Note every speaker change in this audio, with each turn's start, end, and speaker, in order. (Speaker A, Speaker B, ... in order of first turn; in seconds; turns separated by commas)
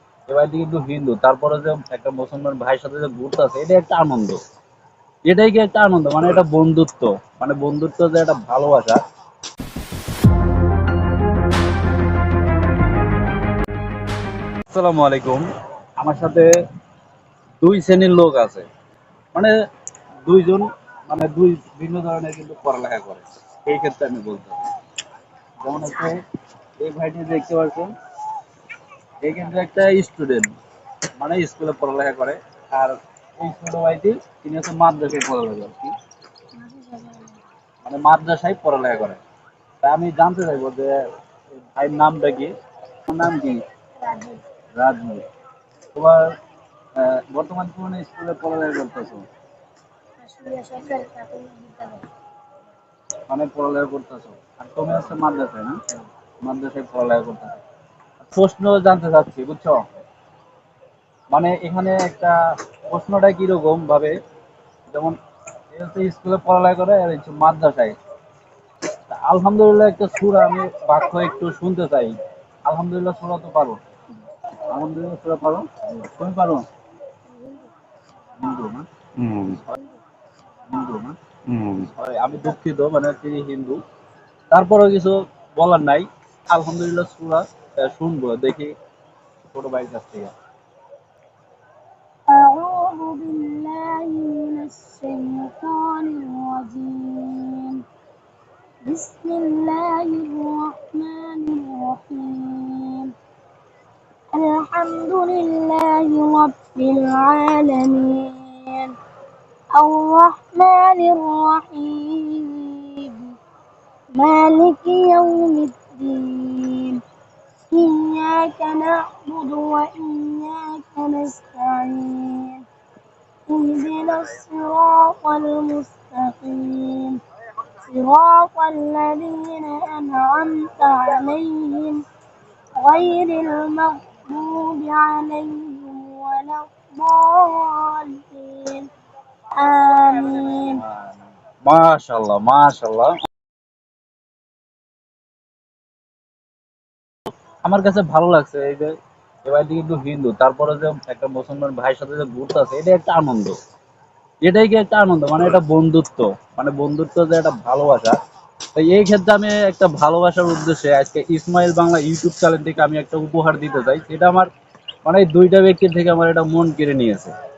Speaker A: 0.3-4.4, Speaker A: 5.3-9.0, Speaker A: 14.7-15.5, Speaker A: 16.0-16.5, Speaker A: 17.6-18.7, Speaker A: 20.2-24.6, Speaker A: 25.6-26.2, Speaker A: 26.8-27.9, Speaker A: 29.2-30.5, Speaker A: 31.2-36.0, Speaker B: 36.6-37.4, Speaker A: 37.8-39.2, Speaker A: 39.8-41.0, Speaker A: 41.8-42.5, Speaker A: 43.1-43.6, Speaker B: 44.0-44.4, Speaker A: 44.7-45.3, Speaker A: 45.9-46.4, Speaker A: 47.0-49.2, Speaker B: 50.2-52.1, Speaker A: 53.3-55.8, Speaker A: 56.4-57.6, Speaker A: 58.2-59.8, Speaker A: 61.3-64.2, Speaker A: 64.9-65.2, Speaker A: 65.7-68.0, Speaker A: 69.1-73.8, Speaker A: 74.7-76.7, Speaker B: 77.4-77.7, Speaker A: 78.4-79.8, Speaker A: 80.7-83.8, Speaker A: 84.5-88.8, Speaker A: 89.5-90.3, Speaker B: 92.3-97.8, Speaker B: 98.8-103.1, Speaker B: 104.3-109.0, Speaker B: 109.7-113.4, Speaker B: 114.1-117.0, Speaker B: 117.7-122.6, Speaker B: 123.5-132.0, Speaker B: 132.8-138.9, Speaker B: 139.5-140.8, Speaker A: 141.6-143.2, Speaker A: 147.6-148.9, Speaker A: 149.4-153.6, Speaker A: 154.4-158.2, Speaker A: 158.8-164.5, Speaker A: 165.1-167.3